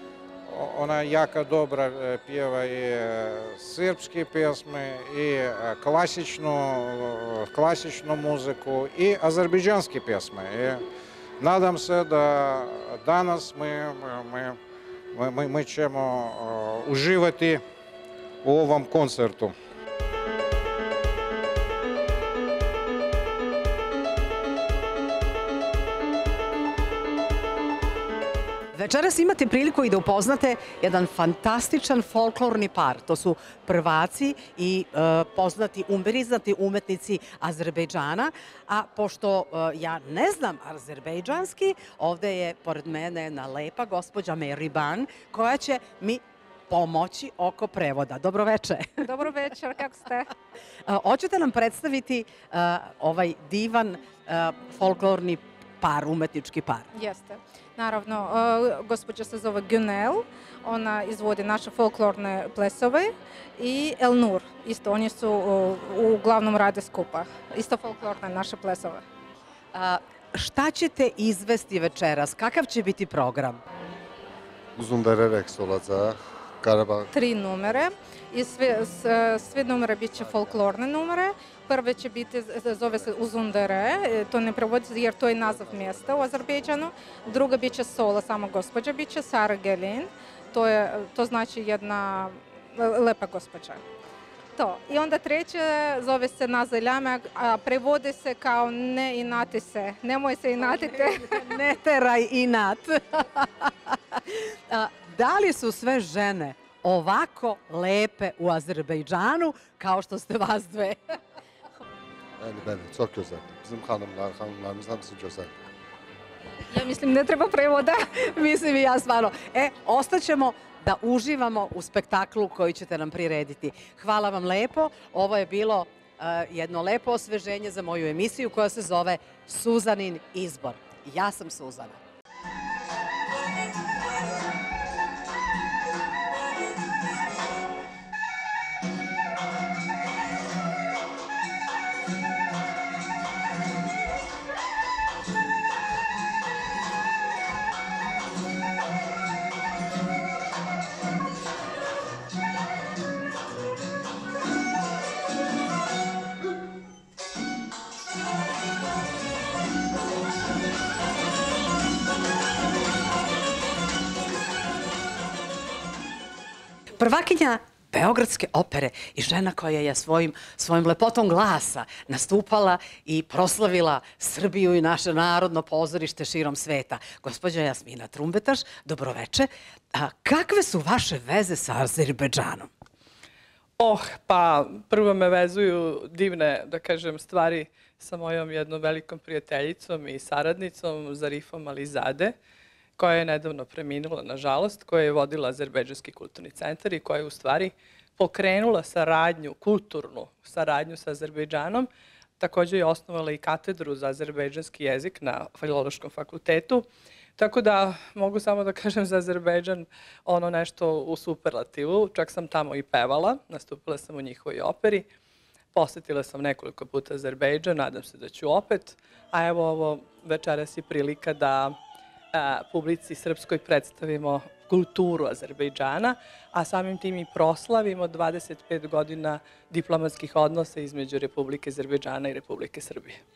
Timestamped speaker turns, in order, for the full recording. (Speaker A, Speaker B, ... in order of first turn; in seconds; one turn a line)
Speaker A: 0.5-10.8
Speaker A: 11.4-14.6
Speaker A: 15.1-17.6
Speaker A: 18.4-19.5
Speaker B: 28.7-49.1
Speaker C: 49.0-50.3
Speaker B: 50.9-56.9
Speaker C: 56.9-69.0
Speaker B: 69.7-73.6
Speaker D: 74.8-77.1
Speaker C: 77.1-93.8
Speaker D: 80.2-80.6
Speaker C: 94.5-101.5
Speaker B: 100.6-111.2
Speaker D: 112.4-115.5
Speaker C: 116.7-118.1
Speaker B: 118.1-132.0
Speaker B: 167.0-182.7
Speaker E: 183.8-192.3
Speaker E: 193.0-201.9
Speaker E: 202.4-206.9
Speaker E: 207.4-215.1
Speaker E: 215.7-221.8
Speaker E: 222.3-233.2